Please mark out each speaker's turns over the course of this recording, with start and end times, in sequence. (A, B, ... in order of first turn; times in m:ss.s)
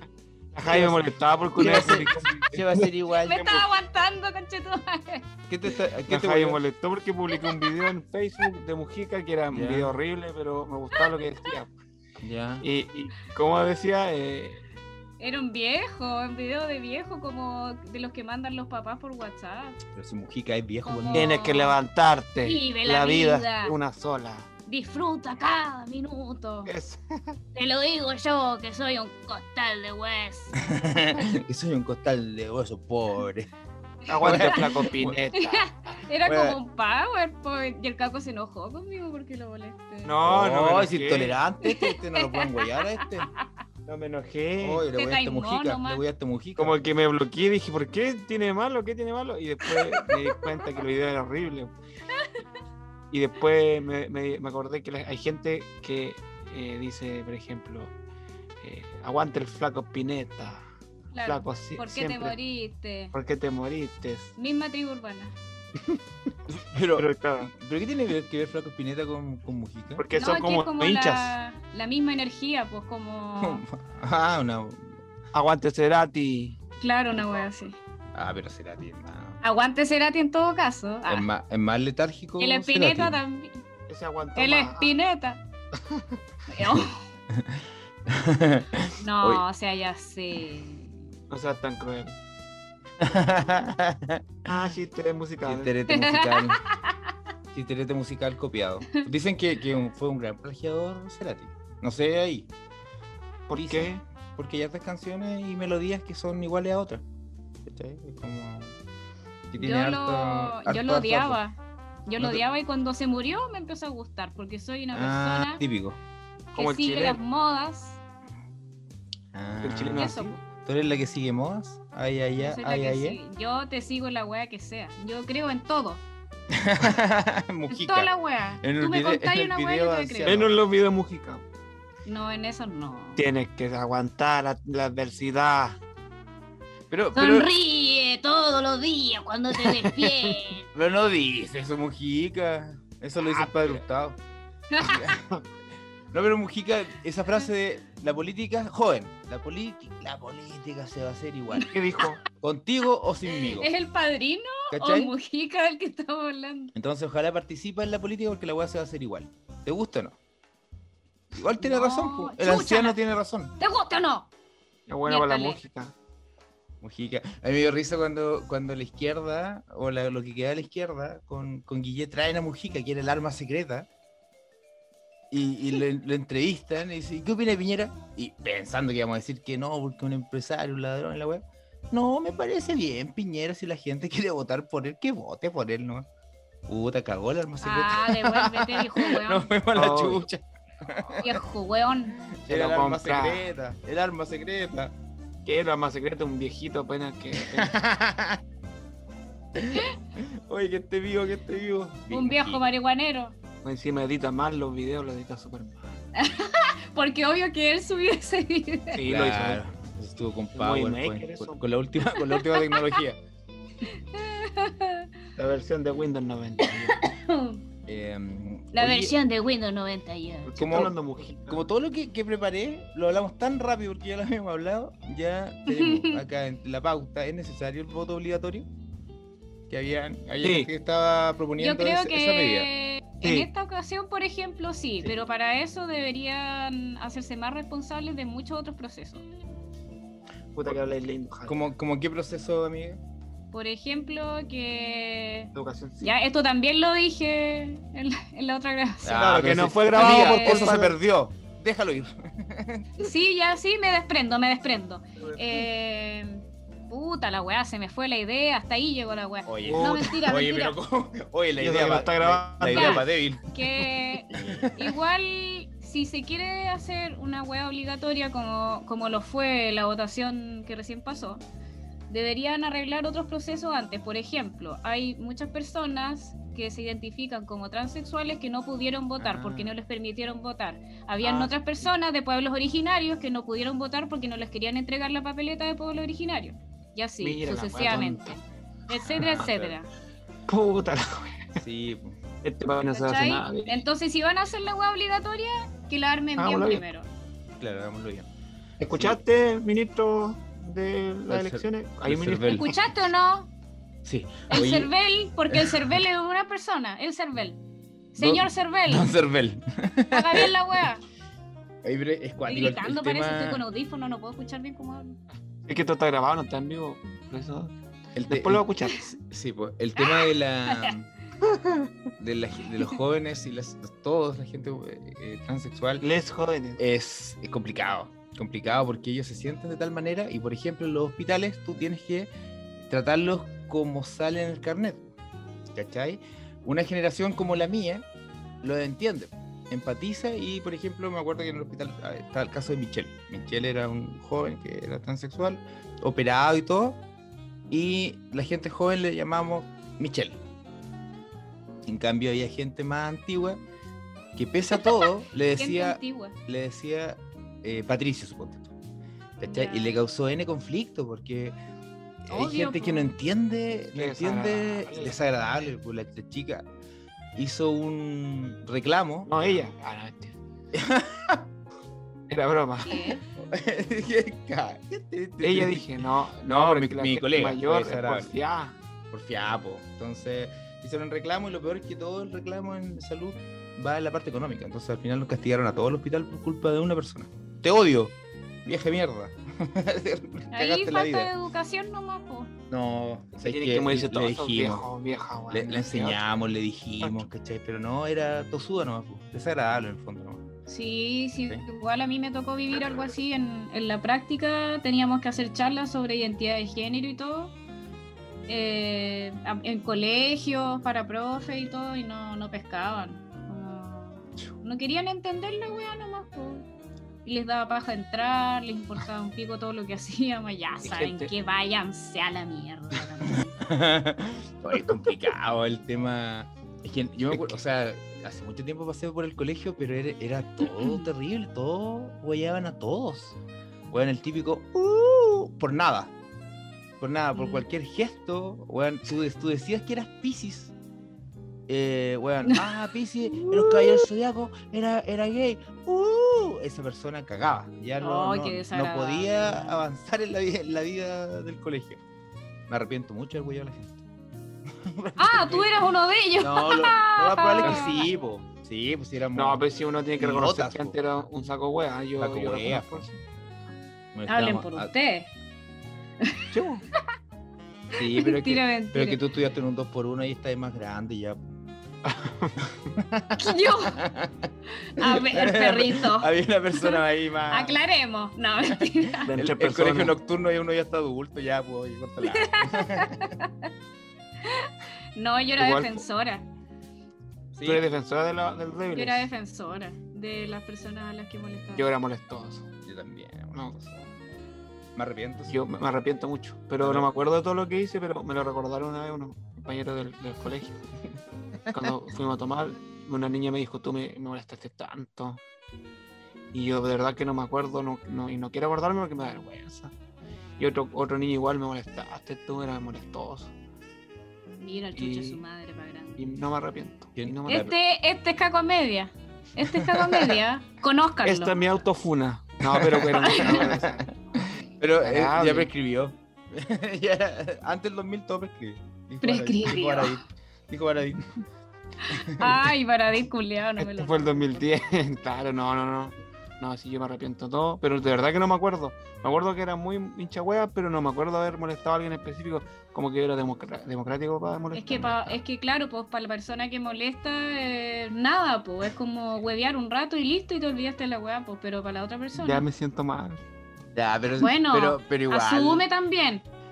0:00.5-0:02.9 A
0:00.7-0:03.6 B
0:03.1-0:05.2 C
0:05.5-0:06.6 B
0:06.1-0:11.7 A
0:09.5-0:09.9 B
0:12.2-0:12.7 B
0:12.6-0:14.6 A
0:15.2-0:19.8 C
0:19.9-0:21.4 B
0:20.8-0:21.8 C
0:21.1-0:24.5 A
0:22.4-0:23.7 C
0:24.7-0:26.7 C
0:26.6-0:27.4 A
0:27.5-0:30.5 C
0:30.6-0:33.5 B
0:34.1-0:35.9 A
0:34.2-0:35.2 B
0:34.2-0:34.8 C
0:35.3-0:40.1 C
0:36.2-0:36.6 B
0:40.0-0:41.4 A
0:40.2-0:43.3 B
0:41.6-0:43.5 C
0:43.8-0:44.9 A
0:44.6-0:46.8 B
0:44.9-0:46.0 C
0:46.6-0:51.7 A
0:49.7-0:50.2 C
0:53.1-0:57.9 A
0:58.6-1:00.6 A
1:01.1-1:03.1 C
1:01.2-1:02.4 A
1:03.1-1:04.3 A
1:04.4-1:05.3 C
1:06.5-1:10.0 B
1:06.9-1:07.5 A
1:10.0-1:11.4 A
1:10.1-1:13.6 C
1:13.4-1:14.9 B
1:15.3-1:16.6 A
1:16.8-1:17.7 C
1:17.2-1:17.4 A
1:18.1-1:19.4 B
1:19.4-1:21.3 C
1:21.1-1:23.2 B
1:22.4-1:23.6 C
1:23.9-1:25.0 A
1:24.3-1:25.4 C
1:25.7-1:26.2 A
1:26.5-1:27.0 C
1:27.3-1:29.4 B
1:29.0-1:30.9 C
1:31.3-1:32.2 A
1:33.0-1:34.2 B
1:34.4-1:35.7 A
1:35.4-1:36.6 B
1:35.9-1:36.9 C
1:37.5-1:42.5 B
1:43.5-1:44.0 A
1:43.5-1:47.0 B
1:47.6-1:48.7 B
1:49.5-1:51.4 B
1:49.6-1:55.6 C
1:54.9-1:56.0 B
1:56.5-1:58.0 C
1:56.5-1:57.2 A
1:59.3-2:03.2 B
1:59.6-2:00.4 A
2:00.0-2:00.4 C
2:02.4-2:06.0 C
2:06.5-2:10.6 B
2:07.7-2:10.4 C
2:10.2-2:11.4 A
2:12.0-2:13.2 C
2:13.2-2:15.8 A
2:16.9-2:17.5 B
2:17.1-2:20.6 C
2:19.5-2:20.4 A
2:20.7-2:24.2 B
2:23.2-2:23.8 A
2:24.7-2:25.0 C
2:24.8-2:25.3 B
2:26.1-2:31.7 B
2:31.7-2:32.2 A
2:32.4-2:33.7 B
2:33.3-2:36.7 C
2:34.7-2:35.1 B
2:36.7-2:40.2 B
2:41.3-2:43.5 B
2:41.6-2:43.0 C
2:43.6-2:44.3 C
2:44.9-2:45.9 A
2:45.0-2:45.6 C
2:46.8-2:53.9 B
2:55.3-3:06.1 B
3:06.7-3:11.4 B
3:07.6-3:09.5 C
3:09.7-3:10.2 A
3:11.2-3:12.2 C
3:12.3-3:14.9 B
3:12.5-3:13.5 A
3:15.4-3:17.7 A
3:17.5-3:18.4 B
3:19.6-3:22.6 B
3:22.1-3:23.4 C
3:23.6-3:26.0 A
3:26.1-3:29.0 C
3:28.9-3:29.6 A
3:29.0-3:33.2 B
3:30.5-3:31.6 A
3:32.3-3:32.9 C
3:33.8-3:35.1 C
3:35.4-3:37.0 A
3:36.6-3:37.6 C
3:37.9-3:39.1 B
3:38.7-3:40.5 C
3:40.4-3:41.6 A
3:40.6-3:40.9 B
3:41.5-3:48.7 B
3:45.7-3:46.2 C
3:49.7-3:52.7 B
3:50.4-3:50.7 A
3:51.6-3:59.2 C
3:53.2-3:53.5 A
4:00.5-4:01.6 A
4:01.5-4:03.0 B
4:03.5-4:09.4 C
4:05.5-4:06.1 A
4:09.0-4:12.9 B
4:09.1-4:11.0 A
4:09.9-4:10.8 C
4:13.0-4:20.8 C
4:19.4-4:23.5 B
4:19.6-4:20.2 A
4:21.6-4:23.1 A
4:22.7-4:31.4 C
4:24.3-4:24.9 B
4:32.1-4:49.9 C
4:39.2-4:39.7 B
4:41.2-4:41.9 A
4:47.2-4:48.4 A
4:49.1-4:49.5 A
4:49.1-4:49.7 B
4:50.5-4:51.6 A
4:51.6-4:52.2 B
4:52.4-4:53.8 A
4:52.9-4:57.1 C
4:56.4-4:56.8 A
4:57.6-4:58.3 B
4:58.8-5:02.7 A
4:58.8-4:59.2 B
5:01.3-5:02.7 B
5:02.5-5:03.5 C
5:04.0-5:04.9 B
5:04.5-5:07.6 C
5:05.5-5:05.9 B
5:08.1-5:09.1 C
5:08.2-5:10.6 B
5:10.1-5:11.0 C
5:11.8-5:13.6 B
5:12.5-5:15.2 C
5:15.6-5:17.7 A
5:18.2-5:18.6 B
5:18.3-5:19.1 A
5:19.2-5:21.1 B
5:20.0-5:20.9 C
5:21.4-5:21.9 A
5:22.2-5:26.0 B
5:26.0-5:26.8 A
5:26.8-5:32.3 B
5:32.8-5:35.1 B
5:35.7-5:38.0 B
5:38.6-5:47.0 B
5:47.7-5:50.4 B
5:51.8-5:53.6 B
5:54.4-5:58.7 B
5:54.7-5:56.3 C
5:59.4-6:01.5 B
5:59.4-6:00.0 C
6:02.2-6:06.6 B
6:02.3-6:03.1 C
6:03.9-6:05.2 A
6:07.4-6:09.3 B
6:09.2-6:10.4 A
6:10.7-6:11.4 B
6:12.3-6:13.2 A
6:12.8-6:13.2 C
6:13.4-6:18.3 B
6:15.4-6:18.8 A
6:19.1-6:28.1 B
6:28.6-6:31.3 B
6:30.5-6:32.5 C
6:32.7-6:34.9 B
6:33.4-6:36.2 A
6:35.5-6:40.4 B
6:37.0-6:37.3 A
6:40.7-6:47.5 C
6:48.5-6:56.6 C
6:57.2-7:03.6 C
7:00.8-7:01.3 A
7:03.6-7:13.4 B
7:07.3-7:07.6 A
7:10.8-7:11.0 C
7:13.9-7:16.1 B
7:17.0-7:20.7 B
7:17.3-7:17.6 C
7:21.7-7:32.0 B
7:22.4-7:22.7 C
7:23.2-7:24.0 C
7:28.0-7:29.8 C
7:32.7-7:34.0 B
7:34.7-7:35.8 B
7:35.2-7:38.1 C
7:36.4-7:39.6 B
7:37.6-7:37.9 A
7:39.3-7:43.2 A
7:40.2-7:41.0 B
7:42.2-7:43.1 B
7:44.1-7:44.9 B
7:44.3-7:45.3 C
7:46.2-7:47.0 C
7:46.5-7:46.8 A
7:47.9-7:51.4 B
7:48.0-7:49.2 C
7:52.0-7:52.5 A
7:52.9-7:57.8 B
7:53.4-7:54.0 C
7:54.8-7:59.3 C
7:58.8-8:03.4 B
7:59.2-8:00.2 A
8:02.2-8:03.7 C
8:04.4-8:06.5 C
8:05.6-8:06.0 A
8:07.5-8:07.8 B
8:07.6-8:09.3 A
8:08.9-8:11.9 C
8:11.7-8:12.7 A
8:12.8-8:14.1 B
8:15.0-8:15.6 B
8:15.5-8:20.8 A
8:16.8-8:17.1 B
8:21.7-8:25.4 A
8:26.5-8:29.9 A
8:30.6-8:33.5 A
8:34.6-8:36.3 C
8:35.0-8:35.4 A
8:36.2-8:37.7 A
8:37.2-8:37.7 B
8:37.5-8:41.5 C
8:39.6-8:40.4 B
8:41.2-8:45.7 A
8:42.7-8:44.1 B
8:43.1-8:43.8 C
8:44.8-8:51.3 B
8:49.2-8:50.2 C
8:52.0-8:54.6 C
8:52.1-8:52.6 B
8:53.8-9:05.4 A
9:04.7-9:12.6 C
9:12.3-9:13.4 A
9:13.9-9:15.8 B
9:14.4-9:16.4 C